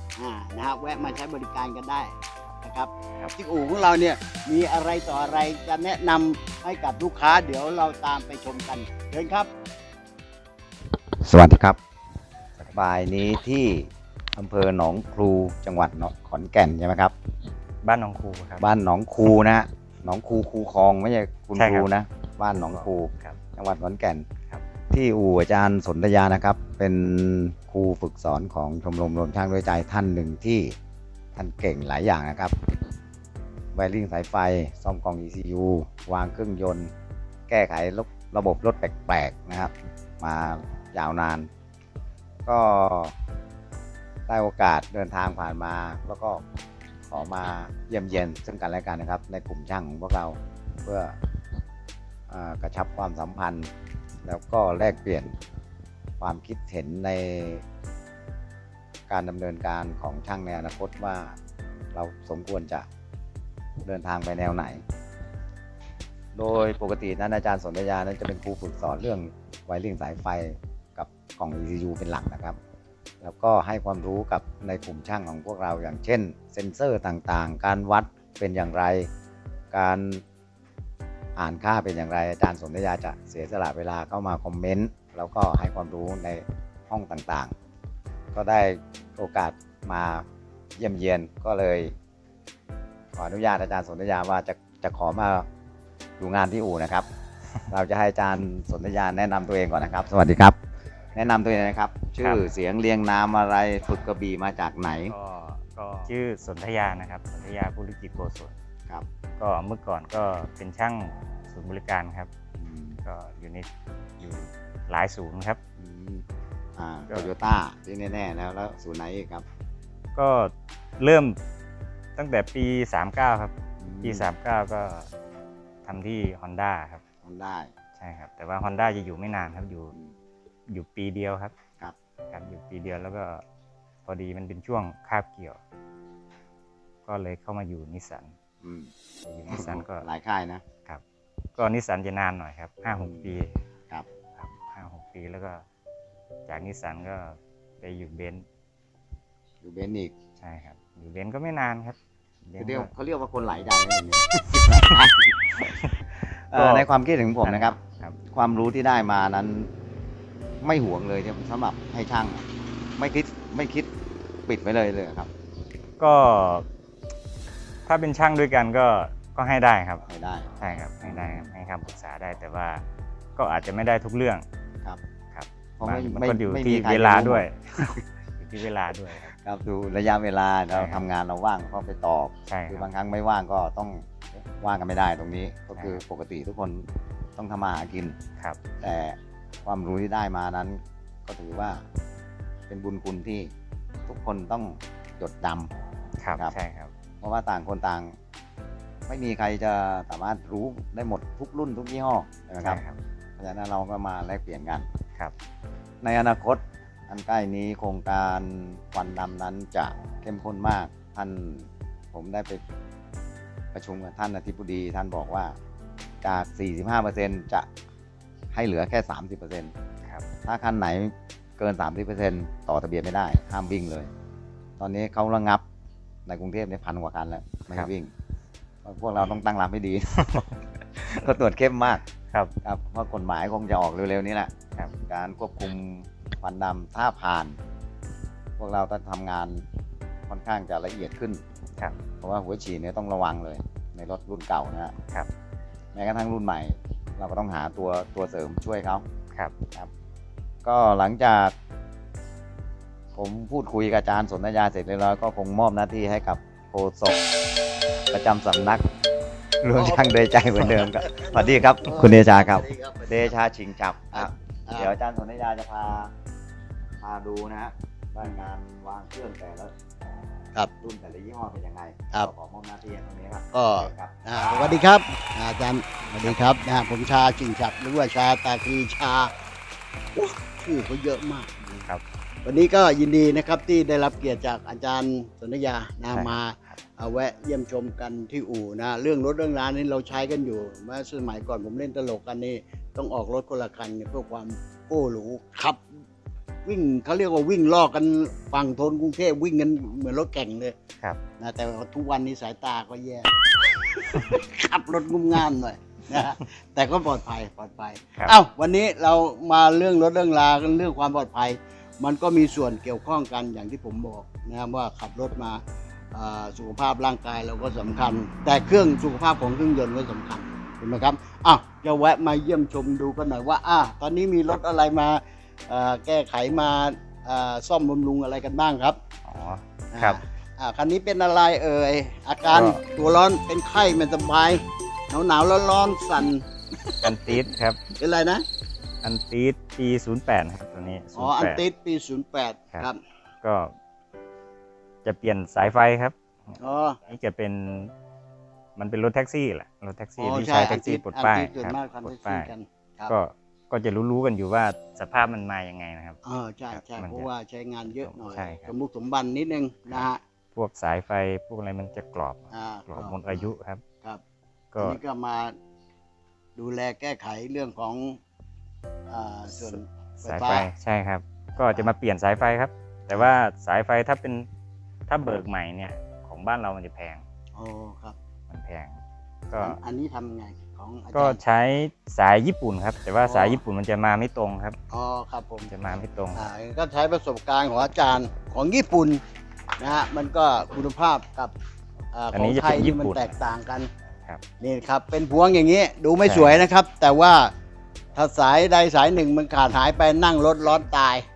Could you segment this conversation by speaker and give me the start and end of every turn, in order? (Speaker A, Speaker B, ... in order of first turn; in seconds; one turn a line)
Speaker A: 0.1-9.5
Speaker B: 11.2-11.8
Speaker B: 12.7-17.1
Speaker C: 17.8-18.6
Speaker B: 18.6-24.2
Speaker C: 21.6-21.9
Speaker C: 22.5-23.4
Speaker B: 24.9-30.7
Speaker B: 31.3-32.5
Speaker B: 33.7-36.9
Speaker B: 37.5-41.5
Speaker B: 42.5-43.1
Speaker B: 44.3-46.4
Speaker B: 47.1-51.1
Speaker B: 52.3-53.7
Speaker B: 54.2-55.3
Speaker B: 56.2-57.6
Speaker B: 59.1-61.4
Speaker B: 61.9-62.9
Speaker B: 63.8-64.8
Speaker B: 66.3-72.6
Speaker B: 73.2-79.1
Speaker B: 79.7-80.2
Speaker B: 81.3-87.5
Speaker B: 88.3-90.2
Speaker B: 90.8-91.9
Speaker B: 93.1-95.5
Speaker B: 96.2-97.0
Speaker B: 97.7-100.6
Speaker B: 101.1-105.1
Speaker C: 105.1-108.5
Speaker C: 109.4-112.3
Speaker B: 112.6-113.0
Speaker C: 113.0-113.7
Speaker C: 114.2-115.6
Speaker B: 115.8-116.2
Speaker B: 116.8-119.4
Speaker C: 120.1-121.4
Speaker C: 122.2-125.1
Speaker B: 123.8-124.2
Speaker C: 125.8-127.0
Speaker B: 127.2-127.7
Speaker C: 128.0-129.9
Speaker C: 130.7-131.5
Speaker C: 132.3-133.4
Speaker C: 134.1-135.6
Speaker C: 137.1-138.3
Speaker B: 138.6-138.9
Speaker C: 139.2-140.0
Speaker B: 139.5-140.6
Speaker C: 141.6-143.5
Speaker B: 142.8-143.3
Speaker C: 144.4-145.6
Speaker C: 146.5-148.4
Speaker B: 149.6-150.1
Speaker C: 150.4-151.9
Speaker C: 152.5-152.9
Speaker B: 152.6-155.6
Speaker C: 155.6-156.9
Speaker B: 156.5-157.8
Speaker C: 157.4-158.2
Speaker B: 158.3-159.7
Speaker B: 160.6-162.4
Speaker B: 163.0-163.9
Speaker B: 164.4-165.3
Speaker C: 166.0-166.7
Speaker C: 167.8-170.0
Speaker B: 170.1-171.5
Speaker C: 170.6-172.8
Speaker C: 173.4-174.4
Speaker C: 175.3-179.3
Speaker B: 175.8-177.9
Speaker B: 179.3-186.8
Speaker C: 180.7-181.0
Speaker C: 182.5-182.9
Speaker C: 185.8-186.0
Speaker B: 187.4-188.2
Speaker B: 188.8-191.8
Speaker B: 192.7-193.5
Speaker B: 194.1-195.7
Speaker C: 196.2-196.9
Speaker B: 197.2-198.1
Speaker B: 199.1-202.8
Speaker C: 202.6-203.0
Speaker B: 203.4-204.9
Speaker B: 206.0-212.6
Speaker B: 213.7-215.5
Speaker B: 216.2-217.7
Speaker B: 218.5-219.7
Speaker B: 220.4-224.1
Speaker B: 224.8-225.6
Speaker B: 226.2-228.1
Speaker B: 228.8-230.4
Speaker B: 231.0-232.0
Speaker B: 232.6-234.5
Speaker B: 235.1-237.6
Speaker B: 238.6-239.6
Speaker B: 240.3-241.4
Speaker B: 242.2-244.9
Speaker B: 245.9-249.0
Speaker B: 250.6-251.5
Speaker B: 253.1-257.2
Speaker B: 258.1-258.9
Speaker B: 259.6-266.1
Speaker A: 259.7-263.3
Speaker A: 264.1-264.9
Speaker B: 267.0-269.7
Speaker B: 270.8-274.1
Speaker A: 273.5-279.3
Speaker A: 280.1-281.9
Speaker A: 282.4-295.8
Speaker C: 286.1-286.8
Speaker A: 296.6-300.7
Speaker A: 301.4-315.6
Speaker A: 316.1-329.0
Speaker C: 329.3-330.2
Speaker A: 329.9-337.1
Speaker C: 332.5-332.8
Speaker C: 337.0-337.8
Speaker A: 337.9-338.4
Speaker C: 339.0-341.6
Speaker A: 341.1-343.0
Speaker C: 343.4-343.7
Speaker C: 345.0-346.6
Speaker A: 346.6-347.0
Speaker C: 347.1-347.9
Speaker C: 348.8-352.5
Speaker A: 350.2-353.1
Speaker C: 353.1-356.2
Speaker A: 356.2-360.2
Speaker C: 356.7-357.3
Speaker C: 357.9-358.7
Speaker C: 359.9-363.8
Speaker A: 362.5-363.5
Speaker C: 364.7-365.0
Speaker A: 364.8-365.5
Speaker A: 366.6-368.2
Speaker A: 369.1-370.7
Speaker C: 369.5-374.5
Speaker A: 371.6-371.9
Speaker C: 375.1-377.2
Speaker A: 377.5-378.2
Speaker C: 378.5-379.0
Speaker C: 379.5-379.8
Speaker A: 379.6-381.4
Speaker C: 381.1-384.8
Speaker A: 383.2-383.6
Speaker A: 384.9-385.7
Speaker C: 385.7-386.4
Speaker A: 386.3-389.2
Speaker A: 389.8-391.5
Speaker A: 392.1-393.9
Speaker C: 392.3-393.4
Speaker A: 394.6-397.5
Speaker C: 396.2-396.6
Speaker A: 398.1-401.2